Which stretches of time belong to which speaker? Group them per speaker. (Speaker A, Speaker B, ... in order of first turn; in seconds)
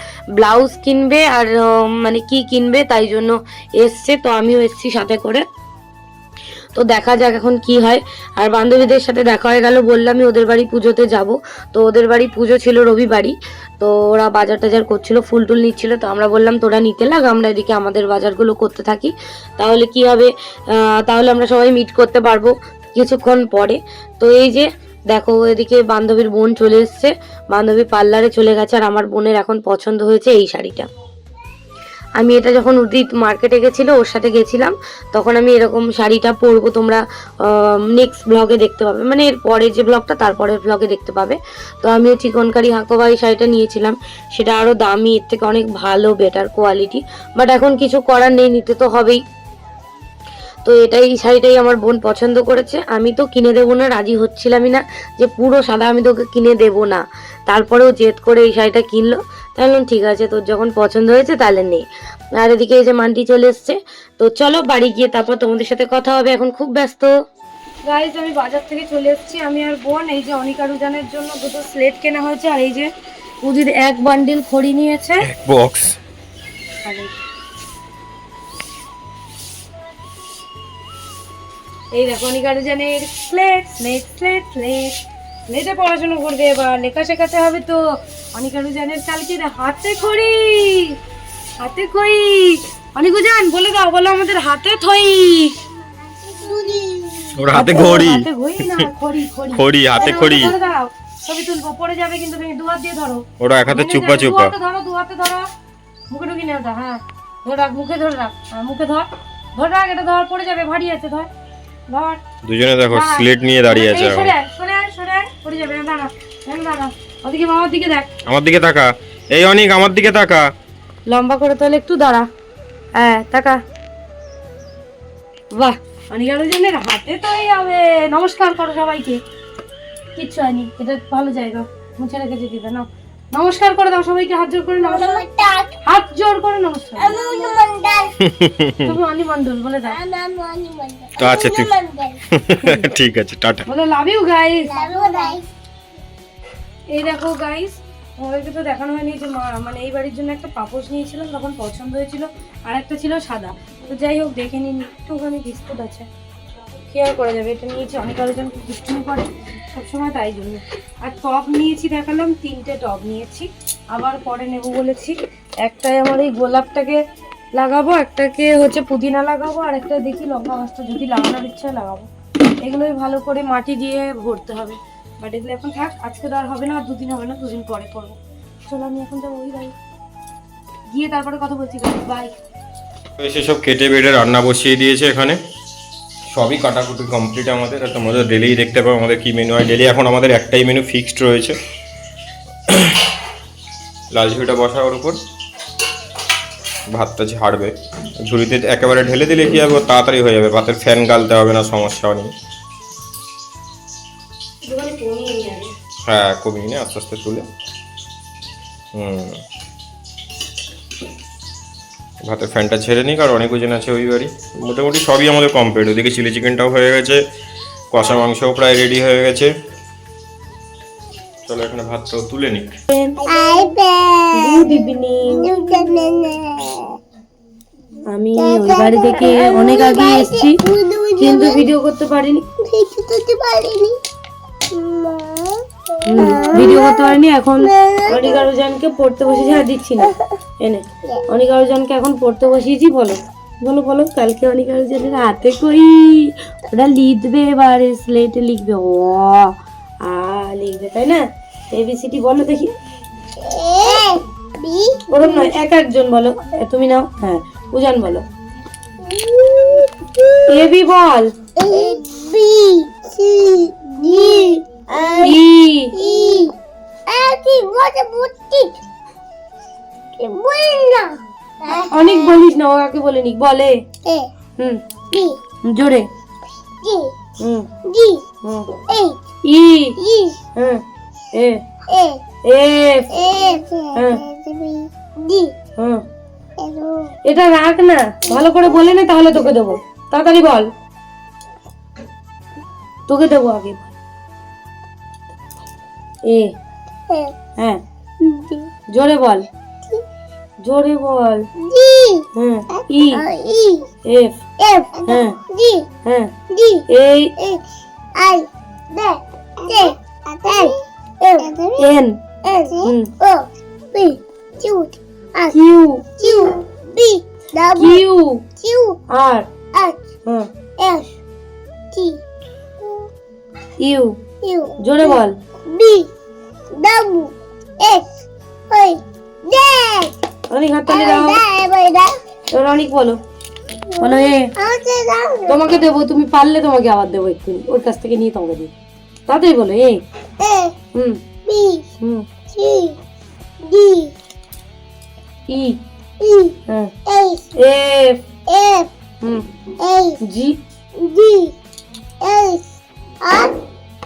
Speaker A: 0.4-5.4, 6.8-30.9, 32.2-49.2, 50.6-61.9, 62.4-67.1, 67.8-72.9, 73.4-75.2, 76.8-77.1, 81.9-85.0, 85.5-87.8, 88.3-91.0, 91.6-95.5, 97.5-105.5, 106.1-111.3, 111.9-112.2, 112.9-118.1, 121.1-122.2, 123.0-123.6, 125.5-129.2, 130.2-135.2, 135.8-137.1, 138.8-140.0, 143.7-145.4, 146.9-156.1, 156.9-167.0, 167.5-172.1, 172.6-179.7, 180.9-182.4, 204.6-205.7, 222.9-223.7, 224.3-225.5, 228.1-230.6, 231.2-232.4, 236.1-252.7, 255.1-258.2, 260.5-261.3, 265.2-265.9, 271.9-273.8, 275.6-276.1, 277.4-277.7, 278.4-278.7, 279.4-280.0, 280.6-280.8, 281.3-281.6, 282.4-283.1, 283.9-284.2, 285.8-286.0, 287.2-290.7, 293.1-293.9, 296.3-296.5, 298.9-299.5, 300.6-301.4, 302.4-303.2, 304.0-304.4, 305.1-305.4, 306.0-306.3, 306.9-307.3, 311.8-312.1, 312.8-313.1, 315.5-316.2, 317.8-318.4, 319.1-319.5, 323.8-324.1, 324.8-325.3, 330.5-331.4, 332.5-333.2, 334.0-334.5, 335.5-338.7, 339.3-340.0, 340.9-341.2, 345.5-345.8, 347.5-348.2, 349.2-349.5, 350.2-350.6
Speaker B: 75.2-76.0, 97.3-98.9, 99.5-100.5, 103.4-104.5, 112.4-114.3, 118.2-120.5, 138.3-138.9, 141.2-141.7, 142.3-143.6, 183.2-185.4, 186.3-191.6, 192.7-193.0, 194.1-195.2, 196.9-202.3, 206.0-207.4, 208.9-209.4, 212.2-217.2, 217.9-219.5, 221.5-222.7
Speaker C: 95.8-97.4, 100.0-100.3, 134.8-135.8, 137.0-138.1, 139.9-142.2, 144.6-145.5, 223.2-224.7, 225.3-226.9, 228.3-231.7, 232.6-234.0, 234.7-238.5, 253.4-255.5, 259.0-260.4, 261.6-265.4, 265.9-266.5, 267.1-268.8, 270.2-272.4, 274.0-274.3, 275.1-275.4, 276.8-277.1, 277.8-278.2, 278.9-279.2, 280.0-280.4, 281.9-282.2, 283.1-285.5, 286.6-287.1, 298.2-298.7, 301.6-302.2, 303.1-303.9, 304.6-305.9, 306.5-306.9, 307.4-307.6, 308.1-311.9, 312.4-315.6, 316.2-318.0, 318.6-319.0, 319.7-320.0, 320.8-321.1, 321.9-322.2, 324.4-326.1, 326.7-330.1, 330.9-332.2, 334.0-335.7, 340.4-340.8, 341.4-341.9, 342.5-343.0, 343.6-344.1, 346.2-347.5, 348.5-348.9, 349.8-350.2, 350.9-351.5, 352.2-353.5